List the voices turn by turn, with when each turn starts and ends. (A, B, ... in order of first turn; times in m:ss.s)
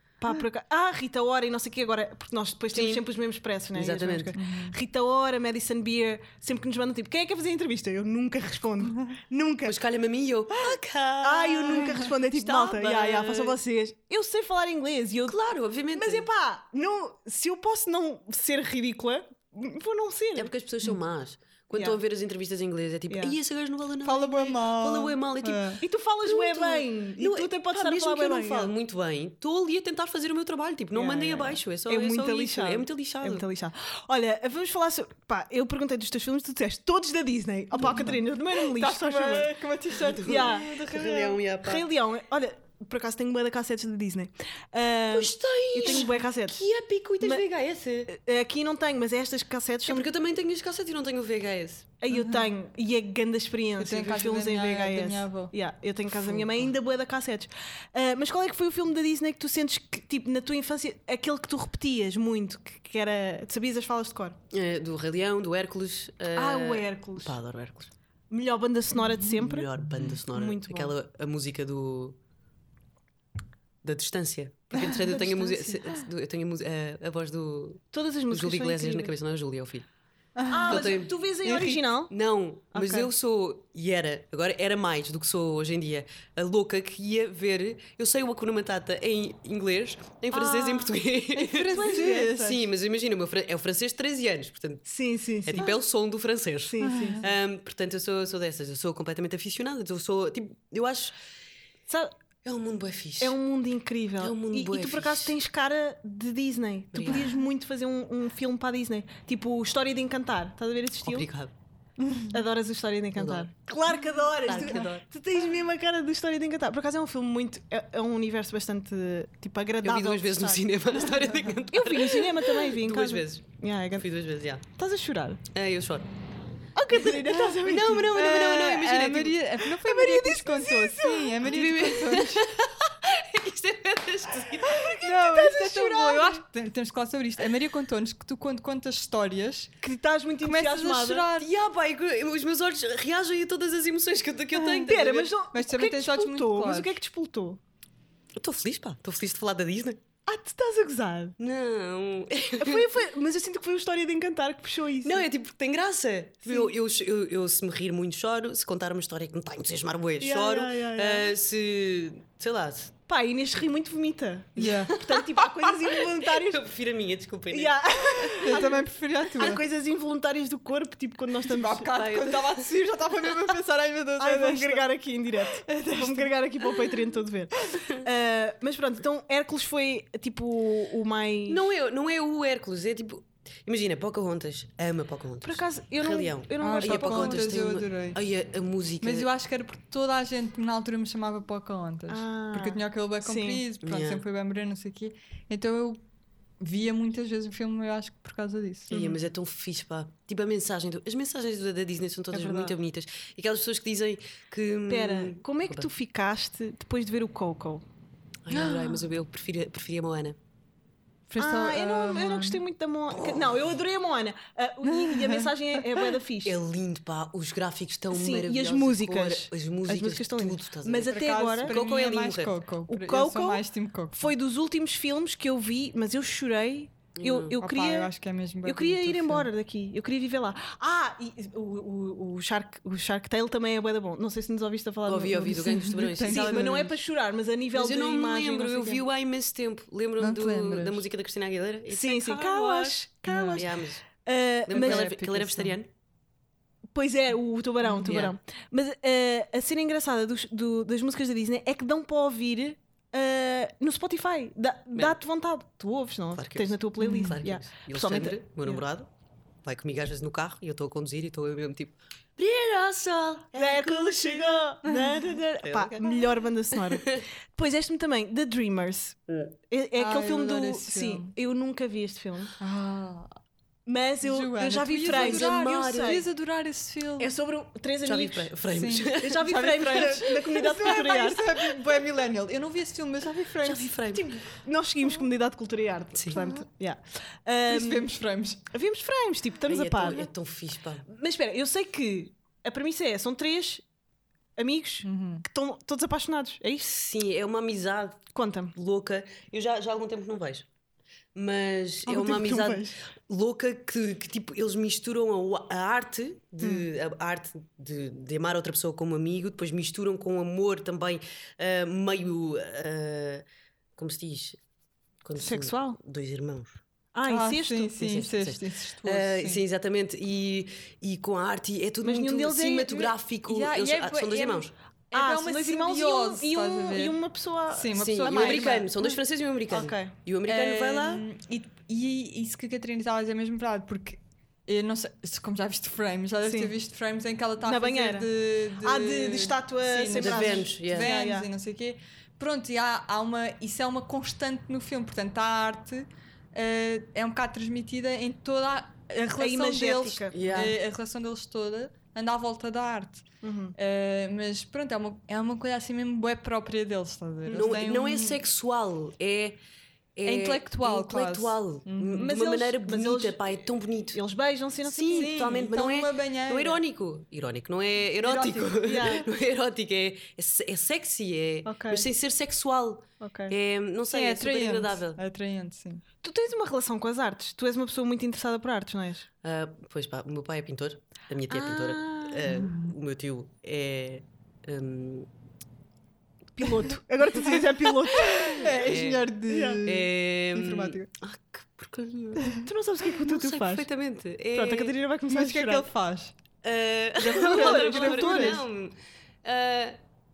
0:00.2-0:09.8 A
0:02.7-0:03.0 B
0:03.7-0:04.3 B
0:04.3-0:04.7 C
0:09.6-0:13.6 B
0:11.2-0:15.4 A
0:15.2-0:16.3 B
0:15.9-0:20.5 A
0:20.4-0:33.4 B
0:21.7-0:22.0 A
0:23.1-0:23.3 A
0:24.0-0:25.8 C
0:25.8-0:28.7 A
0:30.9-0:39.5 A
0:37.7-0:41.4 C
0:40.0-0:41.8 B
0:40.2-0:40.9 A
0:41.6-0:46.6 A
0:45.1-0:48.1 B
0:47.2-0:47.4 A
0:48.1-0:50.1 A
0:49.8-0:51.9 B
0:52.0-1:04.4 A
0:52.1-0:52.5 C
0:53.8-0:55.5 C
0:56.1-0:56.7 B
1:04.5-1:07.9 B
1:06.3-1:07.4 A
1:08.3-1:10.9 A
1:09.3-1:12.2 B
1:13.8-1:19.9 B
1:14.9-1:15.9 C
1:17.9-1:19.1 A
1:20.4-1:21.8 C
1:20.5-1:22.1 A
1:20.7-1:21.1 B
1:22.1-1:34.8 B
1:22.7-1:23.1 A
1:30.3-1:31.0 A
1:31.4-1:32.6 C
1:31.5-1:32.6 A
1:34.8-1:35.8 A
1:35.4-1:41.2 B
1:36.6-1:37.2 A
1:36.8-1:37.2 C
1:41.9-1:42.1 A
1:42.4-1:43.4 B
1:43.2-1:51.3 A
1:44.2-1:45.3 B
1:46.9-1:47.3 B
1:51.0-1:51.5 B
1:52.0-1:52.3 C
1:52.3-2:00.7 A
1:53.2-1:53.5 B
1:54.4-1:55.0 B
1:59.8-2:04.6 B
2:01.7-2:04.1 A
2:04.7-2:05.4 A
2:05.5-2:06.1 B
2:06.8-2:08.1 A
2:06.9-2:09.4 B
2:08.1-2:12.5 C
2:09.6-2:11.4 A
2:11.4-2:14.9 B
2:14.8-2:16.4 A
2:14.8-2:19.7 C
2:19.8-2:21.3 A
2:20.4-2:21.5 C
2:21.4-2:25.3 B
2:24.6-2:27.6 A
2:25.5-2:27.0 C
2:28.4-2:30.0 B
2:30.3-2:31.4 A
2:31.4-2:32.9 B
2:32.6-2:35.2 A
2:35.0-2:42.9 B
2:36.4-2:36.7 A
2:40.2-2:41.3 A
2:43.1-2:46.7 A
2:44.6-2:45.0 C
2:44.6-2:47.8 B
2:47.5-2:51.9 A
2:48.2-2:49.6 C
2:51.5-2:54.8 C
2:51.9-2:52.7 B
2:54.2-3:01.6 A
2:55.5-2:57.0 C
3:01.5-3:09.3 B
3:05.4-3:07.6 A
3:06.6-3:08.2 C
3:09.0-3:16.0 C
3:12.1-3:13.6 A
3:13.8-3:14.2 B
3:16.6-3:19.1 C
3:18.9-3:25.9 B
3:22.3-3:22.7 A
3:24.9-3:27.8 A
3:28.4-3:30.4 B
3:28.5-3:29.0 C
3:31.3-3:36.6 A
3:31.4-3:32.6 C
3:33.1-3:33.6 B
3:34.8-3:36.1 C
3:36.4-3:42.5 B
3:38.1-3:41.7 A
3:41.1-3:44.3 C
3:42.9-3:43.6 A
3:44.1-3:48.1 A
3:47.1-3:47.6 B
3:47.6-3:49.5 C
3:48.6-3:59.0 A
3:55.0-3:56.9 B
3:55.4-3:56.9 C
3:57.7-4:04.0 B
4:00.2-4:01.0 C
4:01.9-4:05.2 A
4:03.3-4:03.6 C
4:04.7-4:05.9 B
4:04.8-4:05.8 C
4:06.9-4:18.8 A
4:08.0-4:08.4 B
4:16.3-4:19.1 B
4:17.0-4:17.4 C
4:19.6-4:24.7 B
4:23.5-4:29.2 A
4:24.8-4:25.1 C
4:25.6-4:27.2 B
4:29.3-4:29.5 B
4:29.7-4:32.6 A
4:30.0-4:31.3 C
4:32.6-4:33.3 C
4:33.8-4:36.2 A
4:34.2-4:37.3 C
4:35.1-4:36.2 B
4:37.2-4:38.5 A
4:38.0-4:41.0 B
4:38.7-4:44.0 C
4:39.1-4:41.8 A
4:43.6-4:44.3 B
4:44.1-4:48.1 A
4:46.3-4:46.6 C
4:47.6-4:48.6 C
4:48.7-4:50.3 A
4:49.7-4:51.0 B
4:51.1-4:53.8 A
4:54.6-4:56.9 A
4:55.0-4:55.4 C
4:56.8-5:00.7 B
4:58.3-4:58.7 A
5:01.3-5:13.4 B
5:02.0-5:03.0 A
5:06.6-5:06.9 A
5:14.0-5:14.6 B
5:15.2-5:16.8 B
5:15.4-5:16.0 A
5:17.1-5:18.0 A
5:17.3-5:19.6 C
5:18.0-5:24.7 B
5:22.0-5:23.1 A
5:23.5-5:27.2 C
5:25.1-5:29.1 A
5:27.7-5:28.9 C
5:27.9-5:31.2 B
5:29.7-5:30.1 A
5:30.4-5:53.2 C
5:36.4-5:36.7 A
5:37.6-5:38.3 A
5:38.8-5:41.5 A
5:40.1-5:41.1 B
5:49.4-5:50.6 A
5:50.3-5:50.8 B
5:53.4-5:53.8 A
5:53.8-5:58.4 C
5:57.5-5:59.6 B
6:00.2-6:04.2 B
6:00.2-6:02.4 C
6:02.2-6:05.7 A
6:04.8-6:15.2 B
6:05.1-6:06.8 C
6:08.2-6:09.1 C
6:08.8-6:09.2 A
6:11.6-6:12.1 A
6:13.2-6:13.5 A
6:14.1-6:16.0 C
6:16.2-6:19.3 A
6:19.4-6:25.3 B
6:21.5-6:22.5 A
6:22.5-6:22.9 C
6:26.6-6:28.8 A
6:28.1-6:31.1 C
6:28.3-6:29.3 B
6:29.4-6:29.8 A
6:29.8-6:34.9 B
6:32.6-6:33.9 A
6:34.5-6:35.9 A
6:35.3-6:36.3 C
6:36.6-6:40.0 B
6:37.2-6:38.6 A
6:37.4-6:38.6 C